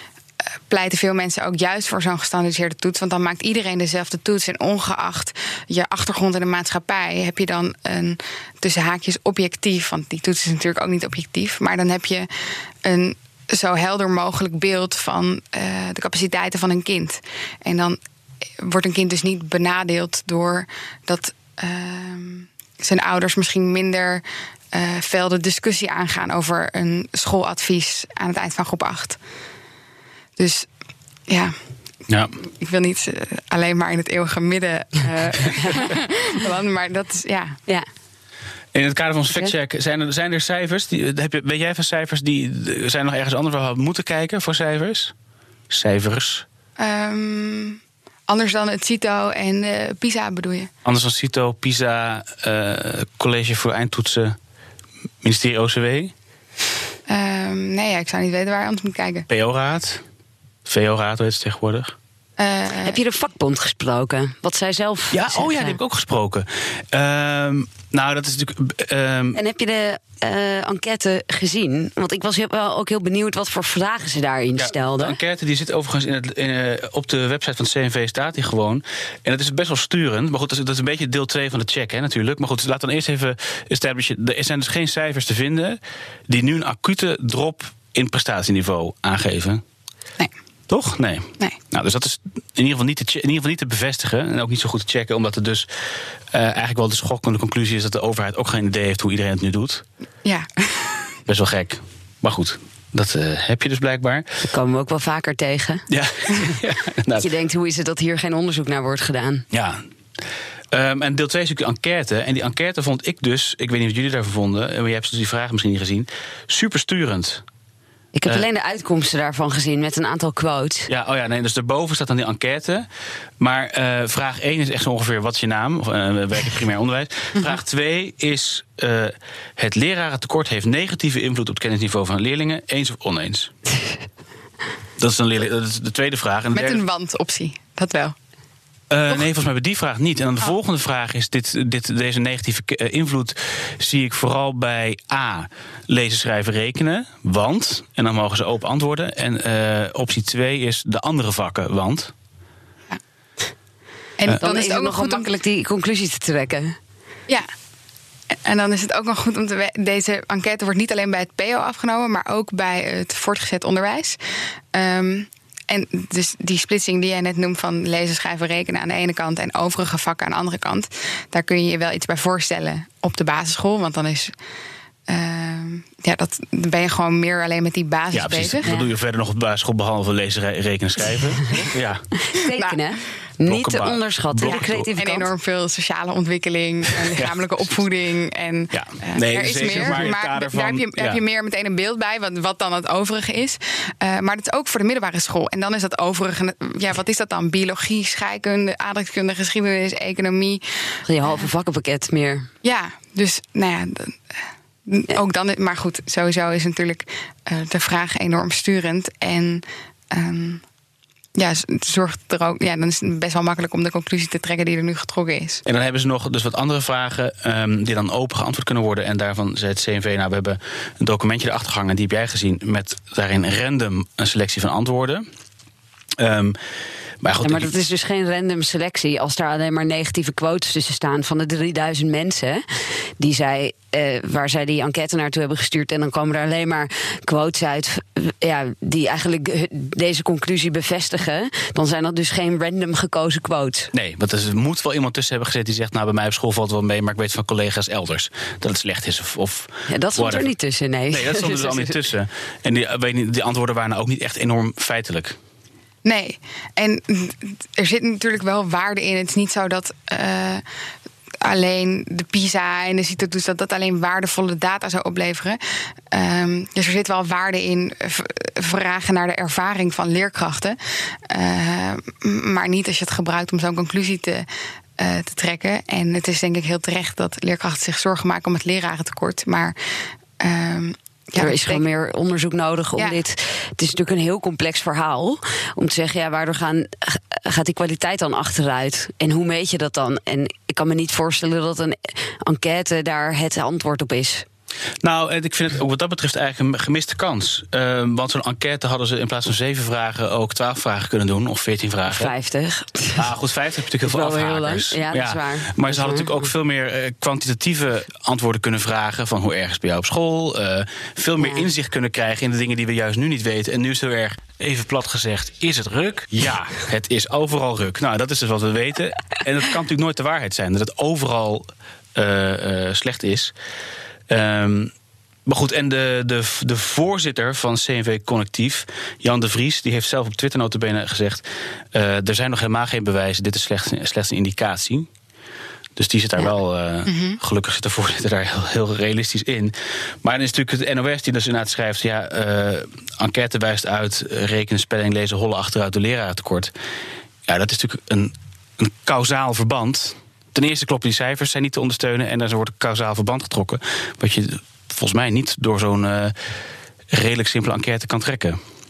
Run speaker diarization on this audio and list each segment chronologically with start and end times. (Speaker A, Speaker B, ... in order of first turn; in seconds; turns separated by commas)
Speaker A: 0.7-12.3, Speaker A: 12.8-18.0, Speaker A: 18.6-29.2, Speaker A: 30.4-30.7, Speaker A: 31.3-31.5, Speaker B: 32.1-32.3, Speaker A: 32.6-37.6, Speaker B: 38.7-45.1, Speaker B: 45.7-46.4, Speaker A: 46.8-50.7, Speaker B: 50.8-54.4, Speaker B: 55.2-56.1, Speaker A: 57.1-59.2, Speaker B: 59.3-60.0, Speaker B: 60.6-61.9, Speaker A: 62.4-63.0, Speaker C: 62.8-65.8, Speaker B: 65.1-69.4, Speaker C: 69.3-75.2, Speaker B: 74.6-89.6, Speaker B: 90.7-95.7, Speaker B: 96.3-99.8, Speaker A: 100.2-100.9, Speaker B: 101.3-104.2, Speaker C: 104.4-105.8, Speaker B: 105.9-107.3, Speaker C: 107.2-109.4, Speaker B: 109.5-109.8, Speaker B: 110.7-117.4, Speaker C: 118.1-120.9, Speaker B: 120.9-122.9, Speaker B: 123.4-133.5, Speaker B: 135.0-136.8, Speaker A: 136.5-138.2, Speaker B: 138.9-152.1, Speaker A: 154.2-155.2, Speaker C: 154.4-156.8, Speaker A: 158.4-164.2, Speaker A: 164.7-174.3, Speaker A: 175.1-178.7, Speaker B: 178.1-182.1, Speaker C: 182.3-185.3, Speaker B: 183.4-184.9, Speaker A: 184.5-200.6, Speaker B: 187.1-187.3, Speaker B: 188.7-191.2, Speaker C: 201.1-202.5, Speaker A: 202.6-204.2, Speaker A: 204.9-210.6, Speaker A: 211.3-215.6, Speaker B: 215.7-225.2, Speaker B: 226.2-226.6, Speaker B: 227.2-227.7, Speaker C: 227.4-232.6, Speaker C: 233.2-243.9, Speaker B: 243.9-250.5, Speaker C: 249.9-252.0, Speaker B: 251.1-255.3, Speaker A: 256.0-260.6, Speaker A: 261.4-265.6, Speaker A: 266.1-274.4, Speaker A: 275.0-279.8, Speaker A: 280.4-281.8, Speaker C: 281.4-294.4, Speaker B: 295.0-302.3, Speaker C: 302.1-303.2, Speaker B: 303.1-323.5, Speaker C: 304.0-306.5, Speaker C: 311.4-311.7, Speaker B: 324.3-324.9, Speaker B: 325.4-335.1, Speaker B: 336.0-346.7, Speaker A: 337.1-337.4, Speaker B: 347.5-356.3, Speaker B: 357.1-358.6